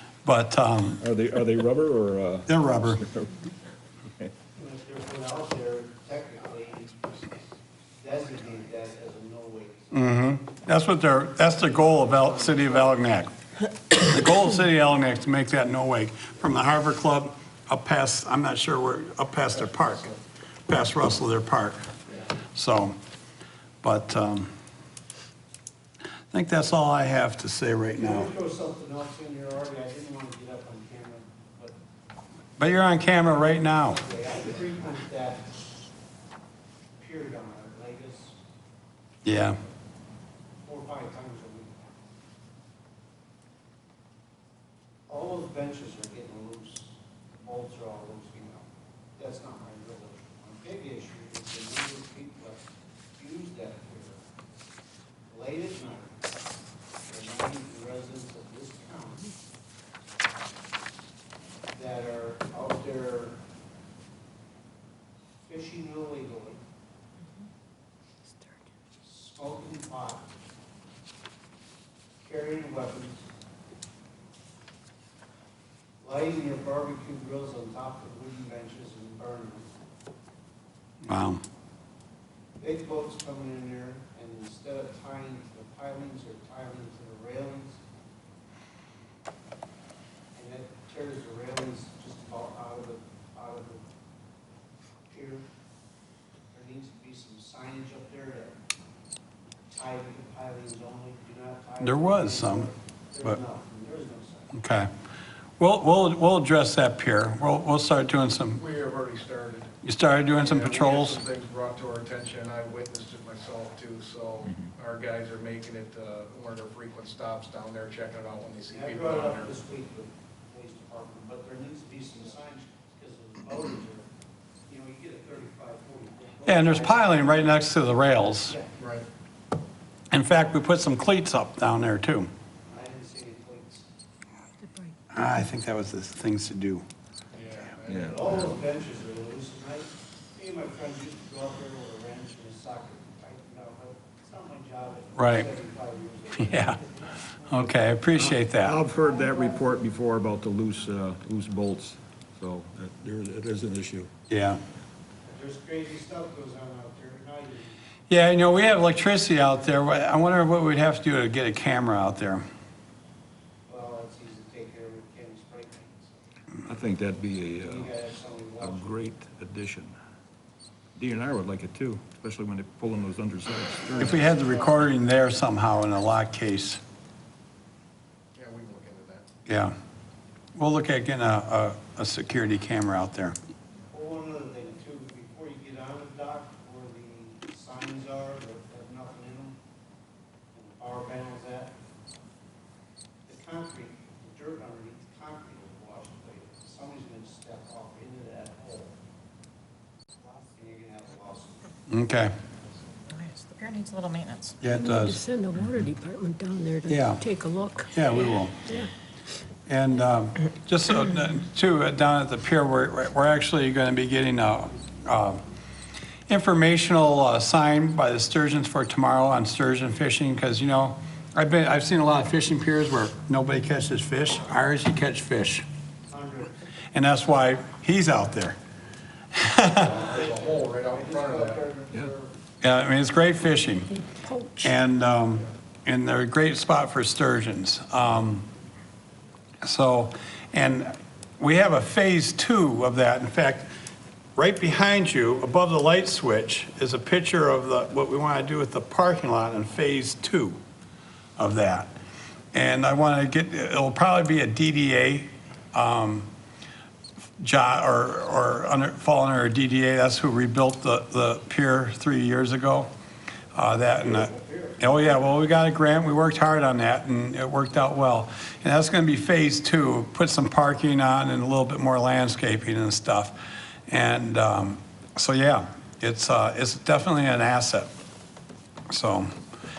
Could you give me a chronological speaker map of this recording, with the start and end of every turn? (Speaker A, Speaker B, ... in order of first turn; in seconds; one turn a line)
Speaker A: 0.2-1.0
Speaker B: 1.0-3.4
Speaker A: 2.5-3.0
Speaker C: 4.5-7.1
Speaker C: 8.0-10.0
Speaker A: 9.9-13.3
Speaker C: 12.1-13.0
Speaker A: 13.9-20.0
Speaker D: 19.6-20.2
Speaker A: 20.7-21.8
Speaker A: 22.4-22.9
Speaker A: 23.8-24.5
Speaker A: 26.3-28.3
Speaker C: 28.0-31.8
Speaker A: 32.6-34.0
Speaker C: 33.8-35.5
Speaker C: 37.0-38.4
Speaker A: 39.2-39.5
Speaker C: 40.6-42.0
Speaker C: 45.1-48.6
Speaker C: 49.2-52.6
Speaker C: 53.1-54.2
Speaker C: 55.3-56.2
Speaker C: 57.0-59.3
Speaker C: 61.7-63.4
Speaker C: 65.4-66.6
Speaker C: 69.0-70.2
Speaker C: 72.2-73.2
Speaker C: 76.0-79.7
Speaker A: 81.0-81.4
Speaker C: 82.6-87.8
Speaker C: 90.3-93.8
Speaker C: 95.1-95.5
Speaker C: 96.5-98.6
Speaker C: 99.7-104.5
Speaker A: 101.8-102.7
Speaker A: 104.5-104.9
Speaker A: 105.6-108.6
Speaker D: 108.5-109.7
Speaker A: 109.8-111.2
Speaker D: 110.3-119.5
Speaker B: 114.4-114.7
Speaker C: 118.7-124.1
Speaker C: 124.7-127.6
Speaker A: 126.5-128.6
Speaker C: 128.4-128.8
Speaker D: 128.8-129.1
Speaker A: 130.1-132.3
Speaker C: 132.7-133.8
Speaker E: 134.6-134.9
Speaker A: 135.1-136.8
Speaker D: 137.3-138.0
Speaker F: 137.7-138.0
Speaker B: 137.9-138.4
Speaker C: 138.0-147.7
Speaker A: 145.2-145.5
Speaker A: 146.4-146.8
Speaker A: 147.5-148.8
Speaker B: 148.1-154.1
Speaker A: 154.3-154.6
Speaker C: 155.3-157.8
Speaker A: 158.1-162.4
Speaker C: 163.7-166.2
Speaker B: 166.7-167.9
Speaker C: 167.6-169.0
Speaker B: 168.6-169.9
Speaker B: 170.9-174.3
Speaker D: 174.0-174.8
Speaker A: 174.0-176.8
Speaker D: 178.3-179.2
Speaker F: 178.6-179.0
Speaker A: 179.4-179.7
Speaker A: 180.5-183.4
Speaker C: 183.9-189.6
Speaker C: 190.5-191.7
Speaker C: 193.3-198.9
Speaker C: 200.2-201.7
Speaker A: 201.9-202.3
Speaker F: 203.1-204.6
Speaker A: 204.6-205.2
Speaker E: 204.6-208.0
Speaker A: 206.9-207.2
Speaker A: 207.9-208.6
Speaker E: 208.6-208.9
Speaker A: 209.7-215.4
Speaker C: 214.7-215.0
Speaker A: 216.3-225.6
Speaker C: 226.1-226.6
Speaker A: 226.9-228.6
Speaker A: 229.3-229.9
Speaker C: 229.7-232.3
Speaker F: 230.2-231.5
Speaker A: 232.6-233.9
Speaker E: 234.0-234.8
Speaker A: 234.6-238.5
Speaker A: 239.6-243.7
Speaker A: 244.3-250.6
Speaker A: 251.4-251.9
Speaker A: 252.5-256.3
Speaker A: 257.4-262.9
Speaker A: 263.5-277.9
Speaker D: 263.9-264.3
Speaker C: 264.0-264.9
Speaker A: 278.9-279.3